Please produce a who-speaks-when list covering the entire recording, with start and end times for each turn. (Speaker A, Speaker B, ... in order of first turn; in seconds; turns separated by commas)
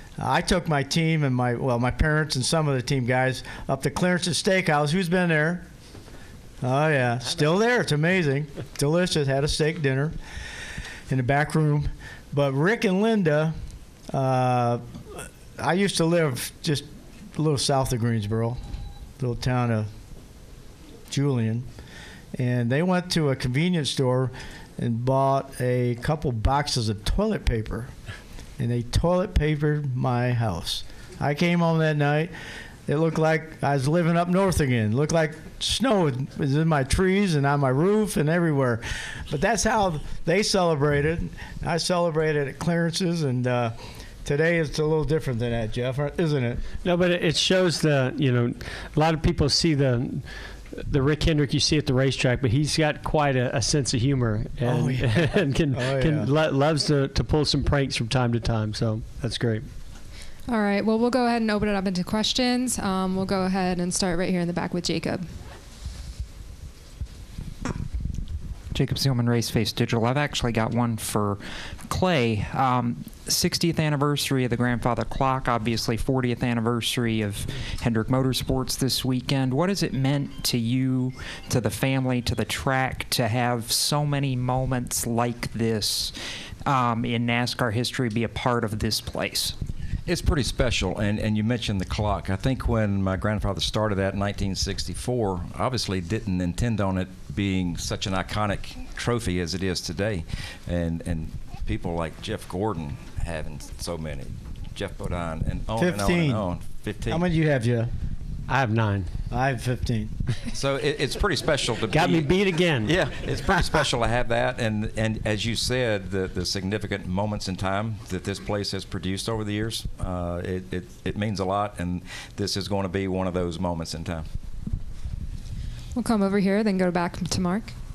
Speaker A: 0.2-5.7, Speaker A: 6.6-10.2, Speaker A: 11.1-13.5, Speaker A: 14.1-18.6, Speaker A: 19.2-19.9, Speaker A: 21.1-21.7, Speaker A: 22.4-27.9, Speaker A: 28.6-32.3, Speaker A: 32.9-43.7, Speaker A: 44.2-46.6, Speaker B: 46.8-50.2, Speaker B: 50.8-59.6, Speaker A: 54.6-56.3, Speaker C: 60.5-65.2, Speaker D: 68.7-86.2, Speaker D: 86.7-89.5, Speaker E: 90.1-107.2, Speaker A: 105.8-106.4, Speaker A: 107.1-107.9, Speaker B: 108.5-109.1, Speaker A: 109.3-110.1, Speaker E: 110.5-124.3, Speaker B: 111.9-112.9, Speaker C: 126.0-127.7